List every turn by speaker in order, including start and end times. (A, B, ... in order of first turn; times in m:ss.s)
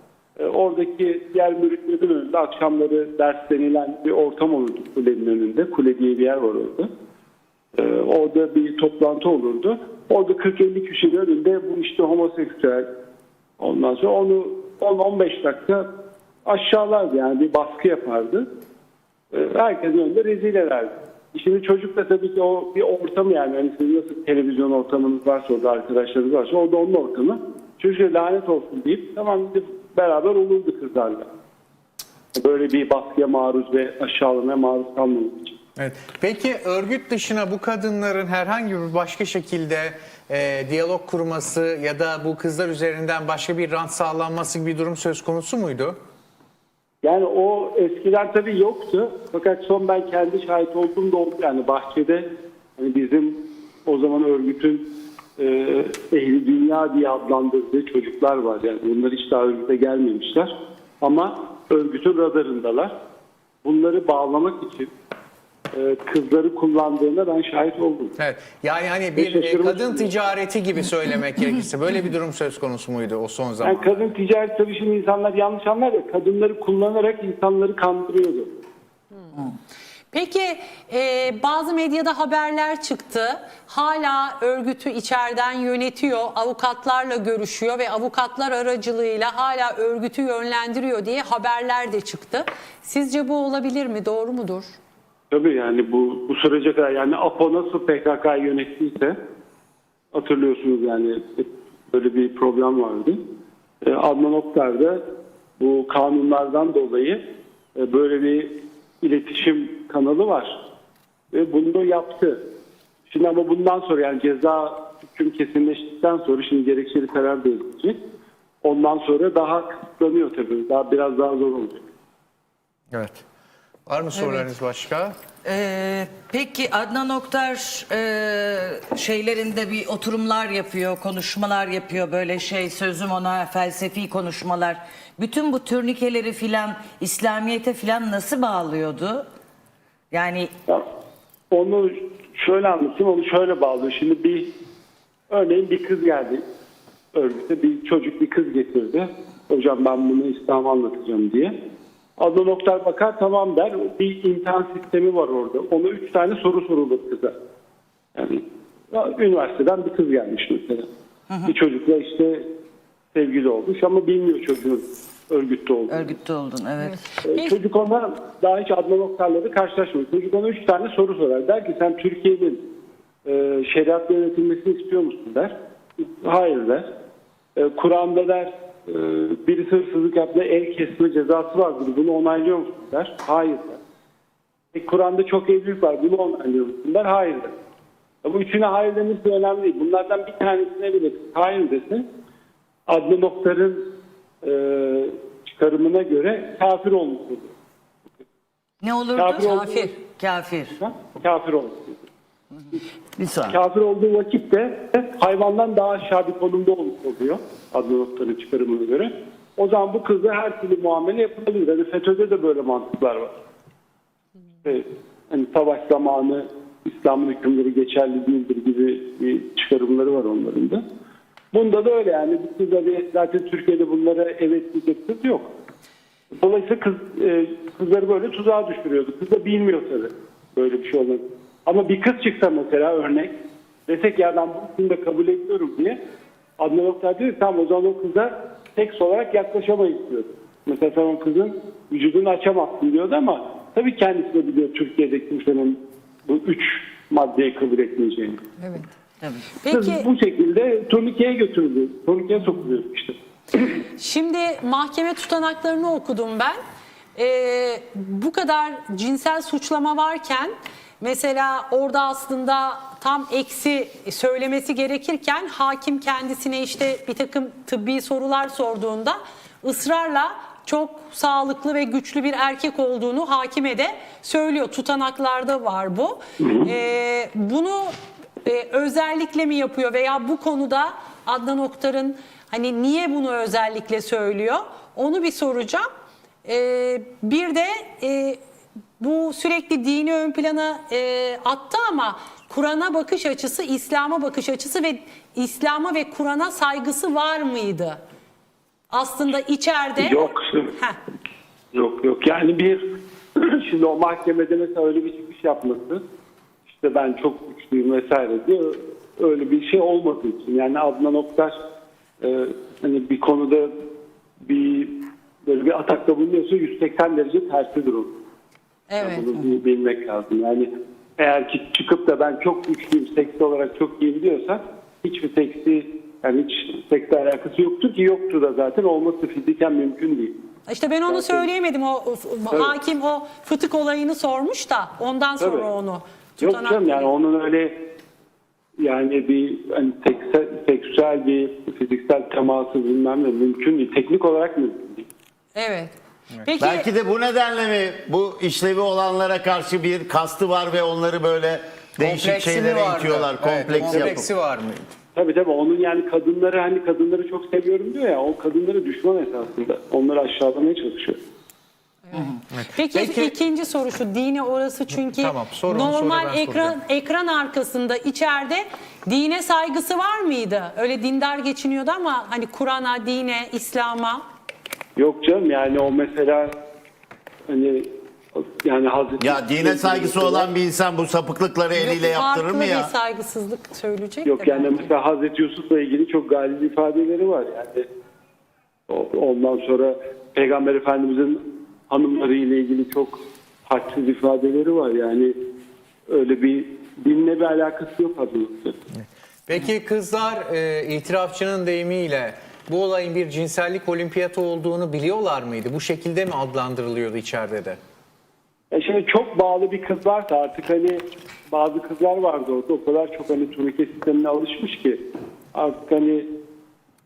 0:00.4-0:06.9 A
0:07.7-0:12.9 A
0:13.6-0:15.8 A
0:16.4-0:18.5 A
0:19.3-0:31.3 A
0:32.3-0:35.6 A
0:35.8-0:46.0 B
0:47.0-0:54.9 A
0:55.4-1:02.9 A
1:03.6-1:04.9 A
1:05.7-1:08.1 A
1:08.2-1:14.0 B
1:09.2-1:10.1 A
1:13.6-1:18.5 A
1:20.1-1:34.8 C
1:35.3-1:39.2 A
1:40.1-1:43.2 A
1:43.8-1:45.0 A
1:45.6-1:47.2 A
1:47.8-1:50.6 A
1:51.3-1:52.4 A
1:53.1-1:58.0 A
1:58.6-2:01.8 A
2:02.9-2:03.2 B
2:03.9-2:05.1 B
2:05.4-2:19.2 D
2:20.1-2:20.5 D
2:21.5-2:24.5 A
2:25.3-2:26.4 A
2:27.1-2:31.5 A
2:32.2-2:37.3 A
2:38.1-2:40.9 A
2:41.4-2:42.4 A
2:43.1-2:46.1 A
2:45.9-2:47.1 D
2:46.9-2:47.6 C
2:47.2-2:52.6 A
2:53.2-2:56.8 A
2:57.6-3:03.8 A
3:04.7-3:07.5 A
3:08.2-3:12.0 A
3:12.9-3:13.8 A
3:14.4-3:17.5 A
3:18.8-3:20.7 D
3:19.1-3:20.0 A
3:20.7-3:22.1 A
3:23.2-3:23.4 D
3:23.5-3:33.4 A
3:34.6-3:40.8 A
3:41.5-3:45.5 A
3:46.3-3:53.3 A
3:53.9-3:56.0 A
3:56.6-4:08.4 A
4:08.6-4:08.9 C
4:09.2-4:09.5 D
4:09.6-4:10.0 C
4:09.7-4:13.6 A
4:14.0-4:16.6 C
4:17.2-4:37.9 C
4:36.4-4:36.7 A
4:38.4-4:45.8 C
4:46.4-4:48.4 C
4:49.0-4:58.0 C
4:58.9-5:01.0 C
5:00.0-5:00.8 A
5:01.7-5:02.8 A
5:03.4-5:06.0 A
5:06.7-5:11.6 A
5:12.2-5:13.7 A
5:14.4-5:14.9 A
5:15.4-5:18.1 A
5:18.9-5:19.2 C
5:19.0-5:30.3 A
5:30.7-5:37.1 C
5:31.1-5:31.5 A
5:35.4-5:35.7 A
5:36.4-5:37.8 A
5:38.8-5:45.1 A
5:45.5-5:46.9 C
5:46.6-5:54.2 E
5:52.0-5:54.9 B
5:53.8-5:54.2 A
5:55.1-6:01.2 A
6:02.1-6:14.2 C
6:02.1-6:03.3 B
6:05.0-6:06.8 B
6:15.0-6:16.5 A
6:17.5-6:20.5 A
6:19.2-6:22.9 E
6:21.7-6:24.9 C
6:24.2-6:27.8 A
6:28.9-6:35.3 A
6:36.1-6:38.8 A
6:39.0-6:47.8 B
6:48.7-6:55.0 A
6:55.5-6:56.3 A